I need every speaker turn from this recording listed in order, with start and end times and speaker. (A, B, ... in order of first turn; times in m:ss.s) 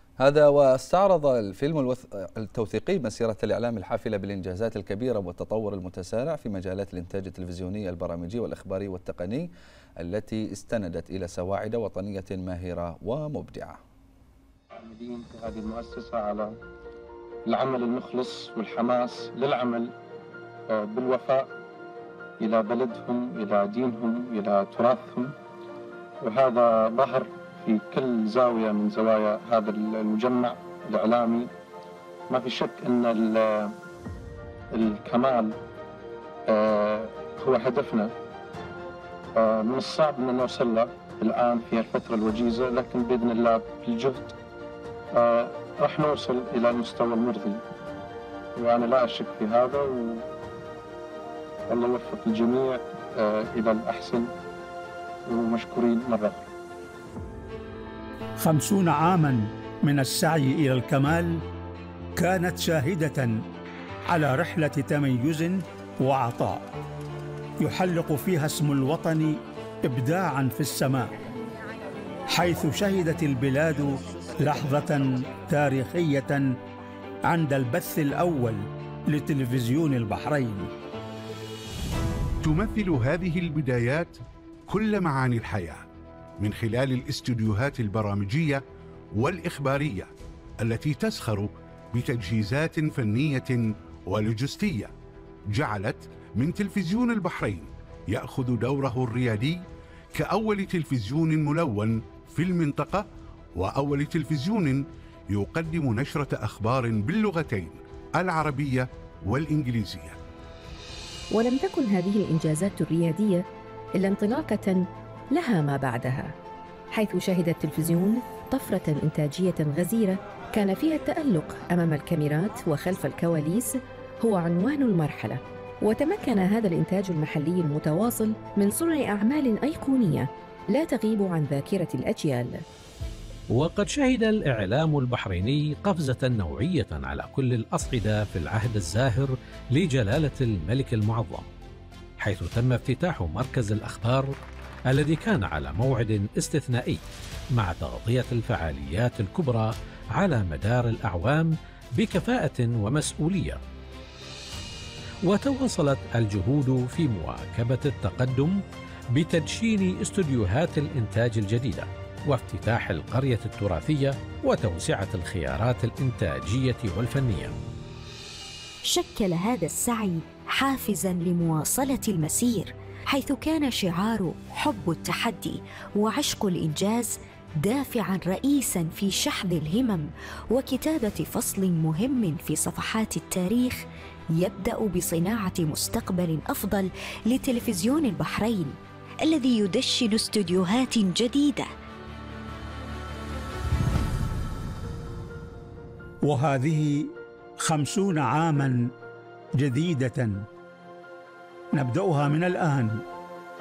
0:00.2-0:09.5 A
0:10.0-0:13.8 A
0:14.8-0:16.6 B
0:17.4-0:19.9 B
0:20.7-0:21.5 B
0:22.4-0:25.3 B
0:26.2-0:31.5 B
0:32.3-0:33.7 B
0:34.7-0:35.6 B
0:36.5-0:38.1 B
0:39.4-0:44.4 B
0:45.1-0:47.6 B
0:48.6-0:50.3 B
0:51.7-0:54.3 B
0:55.3-0:56.5 B
0:58.4-1:01.4 C
1:02.2-1:03.4 C
1:04.1-1:06.6 C
1:07.6-1:11.1 C
1:12.3-1:16.5 C
1:17.3-1:20.7 C
1:22.4-1:25.8 D
1:26.4-1:28.6 D
1:29.1-1:34.9 D
1:35.5-1:50.2 D
1:51.3-1:53.4 E
1:54.0-1:56.3 E
1:56.9-2:12.6 E
2:13.5-2:21.5 F
2:22.2-2:24.4 F
2:24.9-2:27.0 F
2:27.5-2:33.6 F
2:35.3-2:38.6 F
2:39.1-2:47.6 F
2:48.9-3:03.8 G
3:04.4-3:11.7 G
3:16.2-3:18.9 C
3:19.6-3:20.5 C
3:21.7-3:23.0 C